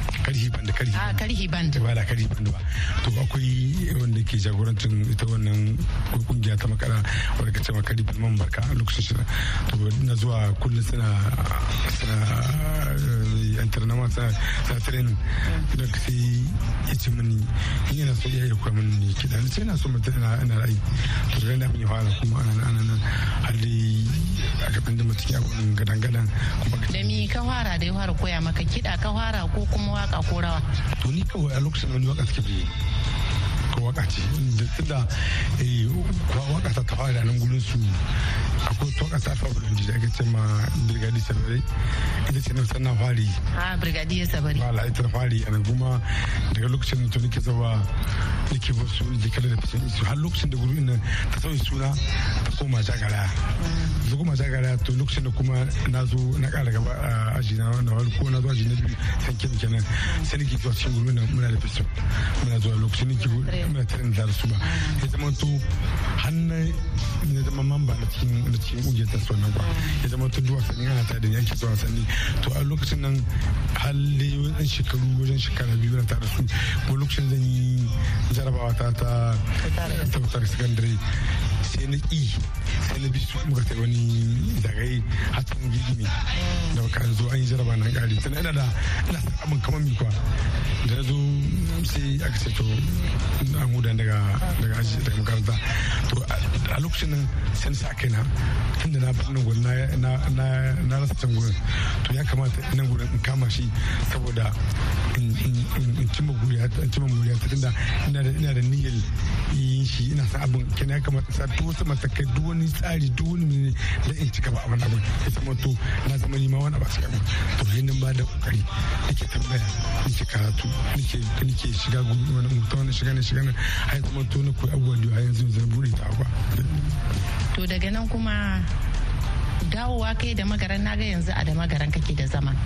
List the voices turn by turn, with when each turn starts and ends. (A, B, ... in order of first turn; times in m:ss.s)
0:00.2-0:27.3 A
0:01.0-0:01.8 B
0:26.9-0:30.6 B
0:31.0-0:32.7 A
0:33.7-0:38.0 A
0:38.6-0:41.6 A
0:42.3-0:43.4 A
0:43.6-0:44.6 B
0:44.5-0:47.9 A
0:48.5-0:53.4 A
0:53.6-0:54.0 B
0:54.0-1:21.0 A
1:03.3-1:03.7 B
1:04.7-1:05.0 B
1:09.6-1:10.0 B
1:19.6-1:20.1 B
1:21.6-1:26.1 A
1:26.4-1:26.8 B
1:26.7-1:30.2 A
1:30.8-1:44.6 A
1:45.1-2:06.7 A
2:07.5-2:08.6 B
2:09.6-2:12.5 B